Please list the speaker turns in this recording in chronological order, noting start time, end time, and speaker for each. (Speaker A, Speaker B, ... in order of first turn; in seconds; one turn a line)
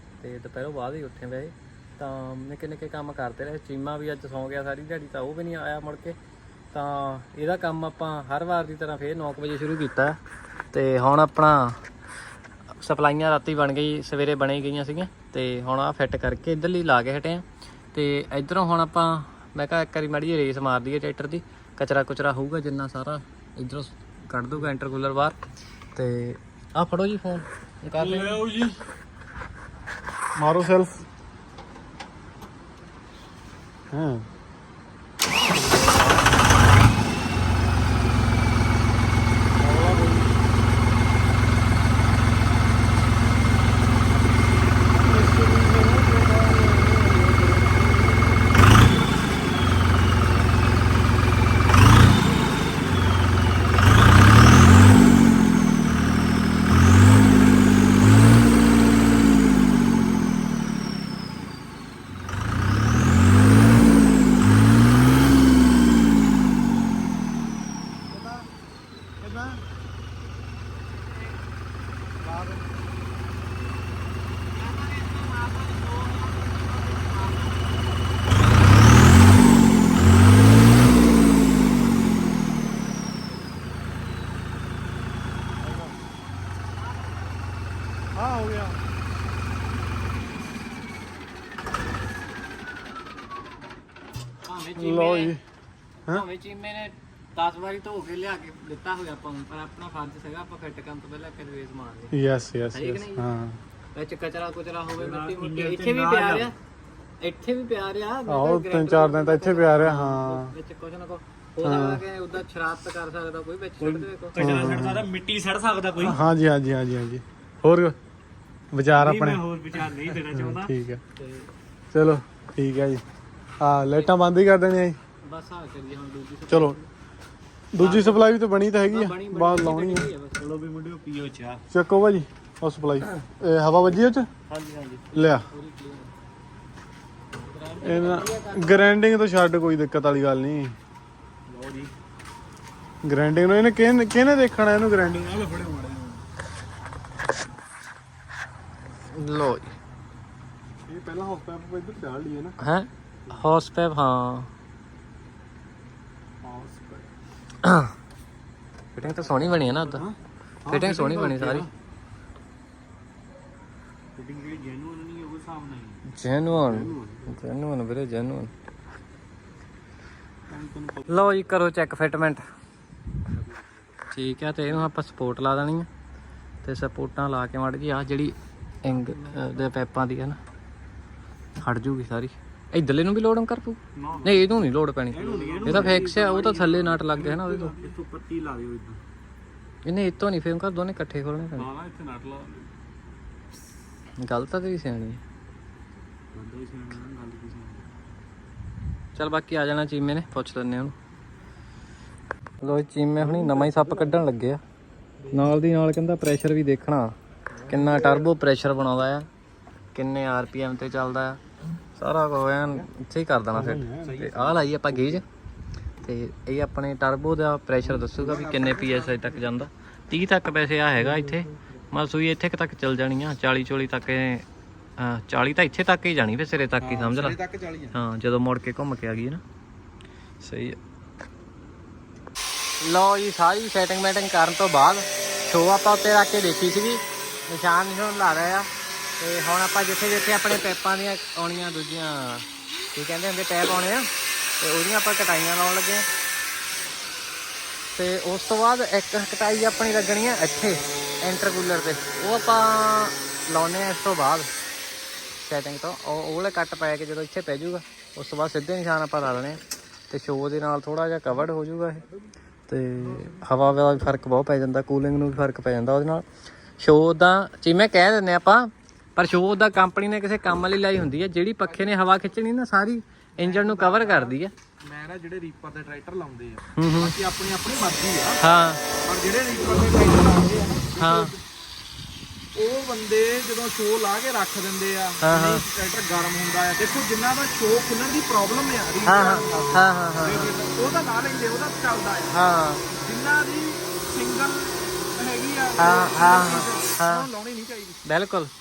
Speaker A: 0.2-6.2
Speaker A: 6.7-10.2
Speaker A: 10.7-11.8
Speaker A: 12.8-25.4
Speaker A: 25.9-28.4
Speaker B: 28.0-28.8
Speaker B: 30.4-31.1
Speaker B: 33.9-34.3
Speaker B: 39.6-40.3
Speaker B: 44.9-48.5
Speaker B: 68.1-68.5
Speaker B: 69.2-69.7
Speaker B: 72.2-72.8
Speaker A: 74.7-77.6
Speaker B: 85.6-86.0
Speaker B: 88.1-88.8
Speaker A: 94.5-95.3
Speaker B: 94.8-95.4
Speaker A: 96.1-102.1
Speaker B: 102.1-103.6
Speaker A: 102.7-103.3
Speaker A: 104.0-106.5
Speaker C: 105.0-106.5
Speaker A: 107.2-114.4
Speaker B: 108.3-110.5
Speaker B: 111.6-112.0
Speaker C: 113.8-116.2
Speaker B: 114.4-115.1
Speaker B: 116.0-118.0
Speaker B: 118.7-119.5
Speaker C: 118.9-120.7
Speaker B: 120.3-121.0
Speaker B: 121.9-123.0
Speaker B: 123.6-125.0
Speaker A: 125.2-126.9
Speaker B: 126.5-126.8
Speaker B: 127.7-130.1
Speaker A: 127.8-128.2
Speaker A: 128.9-130.4
Speaker C: 130.4-131.6
Speaker B: 131.7-134.3
Speaker C: 134.5-135.0
Speaker B: 135.1-135.5
Speaker A: 135.5-136.1
Speaker C: 137.5-138.3
Speaker A: 137.8-138.8
Speaker B: 137.8-140.8
Speaker C: 141.5-141.9
Speaker B: 143.0-146.2
Speaker A: 149.1-149.7
Speaker B: 150.9-152.6
Speaker A: 152.6-154.5
Speaker B: 156.4-157.1
Speaker A: 157.6-157.9
Speaker A: 158.9-160.0
Speaker C: 159.6-159.9
Speaker B: 159.9-161.7
Speaker A: 160.7-161.7
Speaker C: 164.2-166.0
Speaker A: 166.1-168.5
Speaker B: 166.5-167.3
Speaker B: 170.5-171.0
Speaker C: 170.6-171.0
Speaker A: 171.1-172.4
Speaker C: 173.3-173.9
Speaker A: 174.1-175.9
Speaker A: 176.6-180.4
Speaker C: 178.9-179.7
Speaker A: 181.6-187.7
Speaker C: 184.0-184.4
Speaker C: 185.1-189.0
Speaker B: 185.2-186.1
Speaker B: 187.2-188.0
Speaker A: 189.8-191.7
Speaker C: 191.6-192.7
Speaker A: 194.2-195.2
Speaker C: 196.3-197.9
Speaker A: 199.2-200.9
Speaker A: 202.6-204.6
Speaker B: 203.2-204.2
Speaker A: 205.3-207.1
Speaker B: 207.6-208.3
Speaker A: 207.7-209.3
Speaker A: 209.9-211.4
Speaker A: 212.0-215.2
Speaker B: 213.5-214.3
Speaker C: 214.0-215.1
Speaker A: 216.0-224.4
Speaker D: 217.8-219.5
Speaker B: 221.0-221.6
Speaker A: 225.0-227.4
Speaker D: 226.8-227.9
Speaker A: 227.9-229.4
Speaker A: 230.4-230.8
Speaker A: 232.8-238.7
Speaker A: 239.2-246.1
Speaker A: 247.9-254.5
Speaker A: 255.4-259.6
Speaker A: 260.1-262.0
Speaker A: 262.7-266.2
Speaker D: 263.0-263.4
Speaker A: 266.8-274.5
Speaker D: 271.6-272.2
Speaker D: 273.4-278.4
Speaker A: 276.8-277.1
Speaker A: 278.4-278.8
Speaker D: 279.0-281.4
Speaker A: 281.0-281.3
Speaker D: 282.6-298.0
Speaker A: 285.2-285.6
Speaker A: 289.1-290.5
Speaker A: 292.3-292.9
Speaker A: 295.8-297.3
Speaker A: 298.1-298.5